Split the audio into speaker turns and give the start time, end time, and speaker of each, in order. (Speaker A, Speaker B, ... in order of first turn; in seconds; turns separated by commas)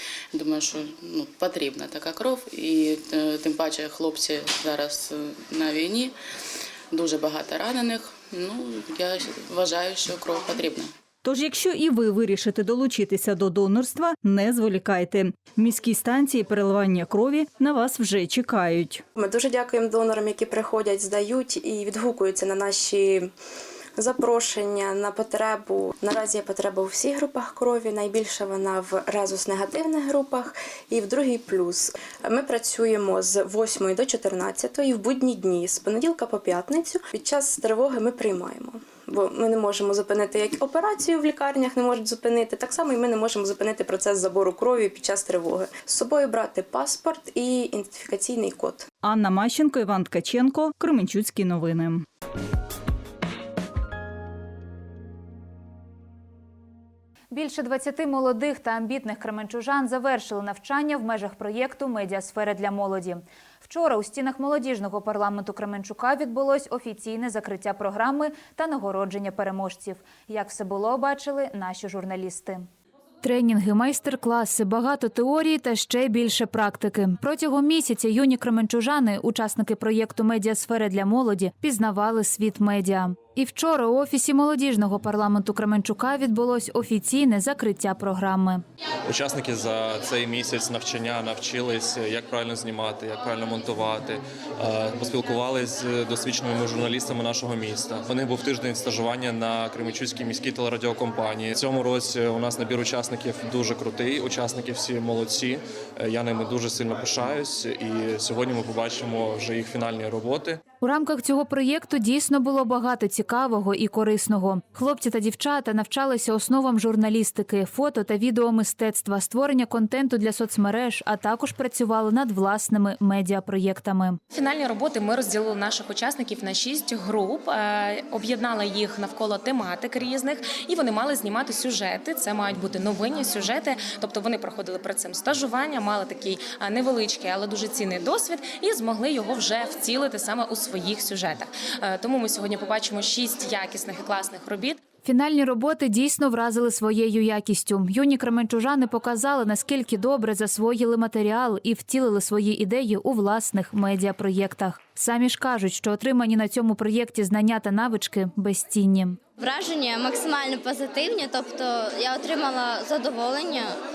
Speaker A: 0.3-6.1, Speaker A: 6.9-10.9, Speaker B: 11.2-19.0, Speaker C: 19.2-23.3, Speaker C: 24.0-48.9, Speaker B: 49.0-52.0, Speaker D: 57.3-72.7, Speaker D: 73.2-88.6, Speaker E: 89.1-110.6, Speaker D: 110.8-124.2, Speaker F: 124.3-144.8, Speaker D: 145.1-159.2, Speaker G: 159.4-163.7